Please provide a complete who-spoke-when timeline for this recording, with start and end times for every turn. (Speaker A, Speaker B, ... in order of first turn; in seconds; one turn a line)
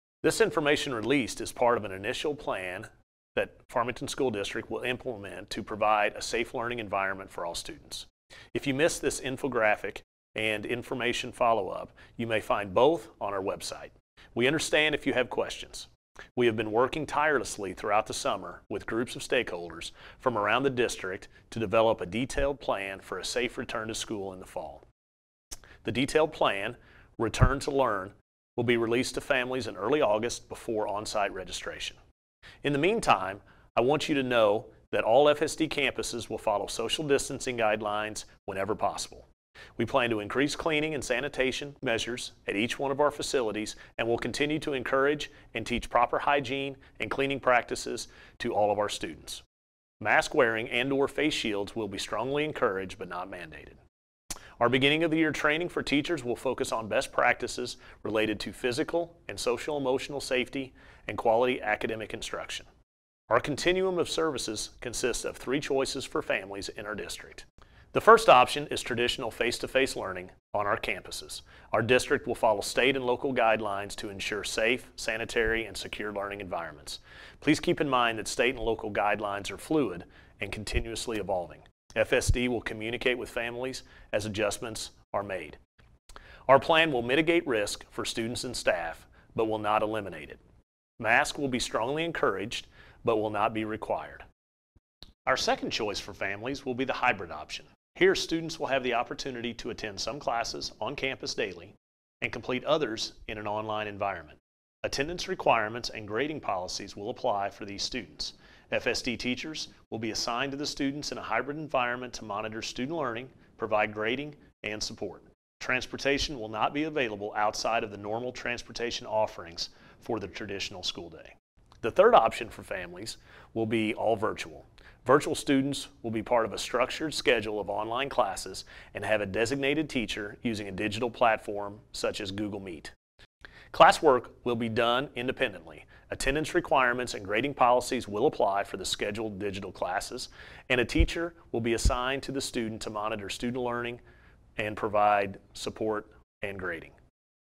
Speaker A: 0.2-24.8
Speaker A: 25.8-32.0
Speaker A: 32.6-49.4
Speaker A: 50.0-53.8
Speaker A: 54.6-62.7
Speaker A: 63.3-85.6
Speaker A: 86.5-90.4
Speaker A: 91.0-94.2
Speaker A: 95.3-132.9
Speaker A: 133.7-144.0
Speaker A: 144.6-147.0